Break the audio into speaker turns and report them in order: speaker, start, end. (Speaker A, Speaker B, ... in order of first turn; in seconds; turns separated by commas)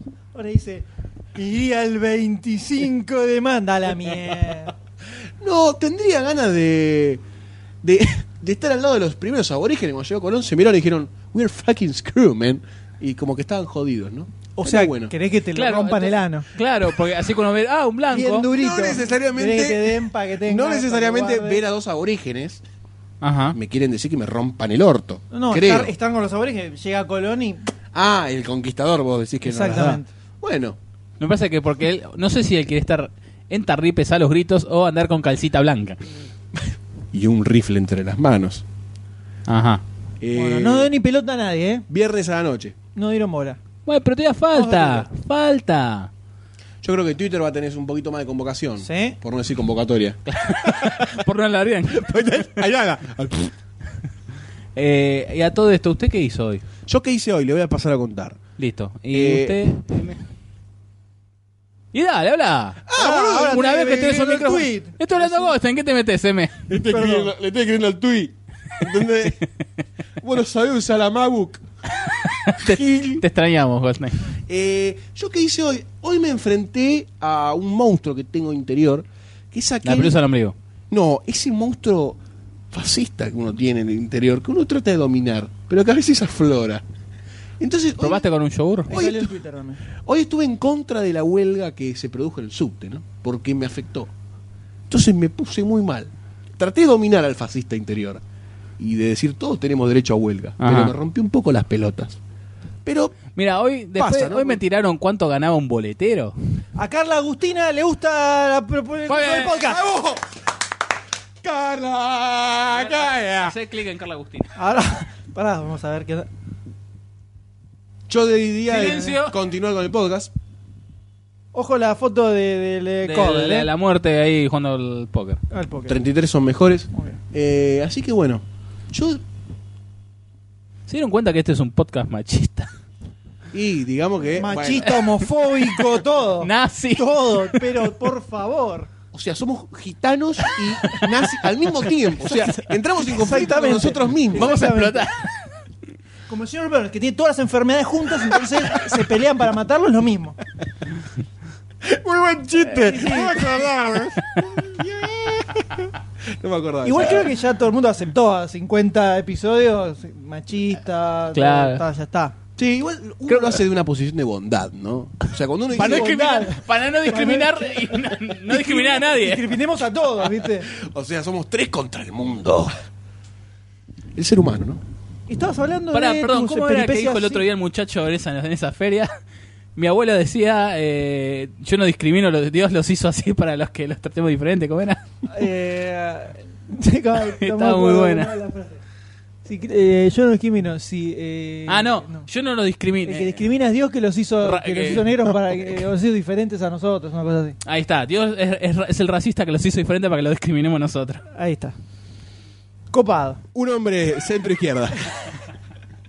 Speaker A: 0.3-4.7, Speaker B: 5.4-7.2, Speaker B: 7.8-15.1, Speaker A: 14.6-16.5, Speaker C: 15.5-18.5, Speaker A: 18.1-21.6, Speaker B: 18.5-22.6, Speaker C: 23.2-23.6, Speaker B: 23.5-25.9, Speaker A: 25.3-27.6, Speaker B: 27.9-30.8, Speaker A: 29.4-30.1, Speaker C: 31.2-36.0, Speaker B: 37.1-38.6, Speaker C: 39.5-39.8, Speaker B: 40.2-40.9, Speaker A: 40.4-41.9, Speaker B: 41.9-42.8, Speaker A: 43.0-43.6, Speaker C: 43.9-46.1, Speaker A: 44.5-45.1, Speaker B: 46.8-51.2, Speaker A: 48.8-49.2, Speaker C: 50.3-52.7, Speaker B: 51.9-53.5, Speaker C: 54.8-56.6, Speaker B: 56.9-58.4, Speaker C: 58.6-60.2, Speaker B: 59.1-59.7, Speaker C: 61.9-66.7, Speaker B: 62.9-64.4, Speaker A: 62.9-65.0, Speaker B: 65.1-65.5, Speaker B: 66.7-69.4, Speaker A: 66.9-67.3, Speaker B: 70.2-71.6, Speaker C: 72.1-74.3, Speaker B: 72.6-73.2, Speaker B: 74.5-80.2, Speaker C: 79.8-80.5, Speaker B: 80.9-82.2, Speaker B: 82.7-86.8, Speaker B: 87.6-88.3, Speaker C: 88.0-88.9, Speaker B: 88.9-89.3, Speaker A: 88.9-89.8, Speaker B: 90.0-94.1, Speaker B: 94.9-98.2, Speaker B: 98.8-102.2, Speaker C: 100.6-100.9, Speaker B: 102.8-103.2, Speaker C: 103.3-106.3, Speaker B: 104.0-104.6, Speaker A: 106.8-109.8, Speaker C: 109.1-109.6, Speaker B: 109.5-110.2, Speaker B: 111.4-113.5, Speaker C: 112.8-114.5, Speaker A: 114.6-116.3, Speaker B: 118.1-120.3, Speaker C: 118.7-119.3, Speaker A: 121.5-123.7, Speaker C: 123.0-125.4, Speaker A: 125.5-126.0, Speaker B: 125.9-129.2, Speaker C: 130.9-132.7, Speaker B: 133.5-135.0, Speaker A: 134.4-138.9, Speaker C: 136.4-137.7, Speaker B: 139.1-144.6, Speaker C: 140.4-141.2, Speaker A: 143.0-145.1, Speaker C: 144.3-145.3, Speaker A: 146.3-150.4, Speaker B: 148.4-148.9, Speaker B: 151.8-157.3, Speaker A: 152.7-153.5, Speaker A: 156.8-162.3, Speaker C: 161.3-161.8, Speaker B: 162.6-166.2, Speaker A: 165.7-170.7, Speaker C: 165.8-169.6, Speaker B: 170.7-172.7, Speaker B: 174.2-174.8, Speaker A: 175.3-177.4, Speaker C: 175.9-179.1, Speaker C: 179.8-185.0, Speaker A: 185.3-188.8, Speaker C: 187.2-188.3, Speaker A: 189.4-192.3, Speaker C: 191.7-193.4, Speaker A: 193.1-197.6, Speaker C: 194.4-195.3, Speaker C: 197.7-201.2, Speaker A: 201.3-201.8, Speaker A: 202.9-203.4, Speaker B: 203.5-205.4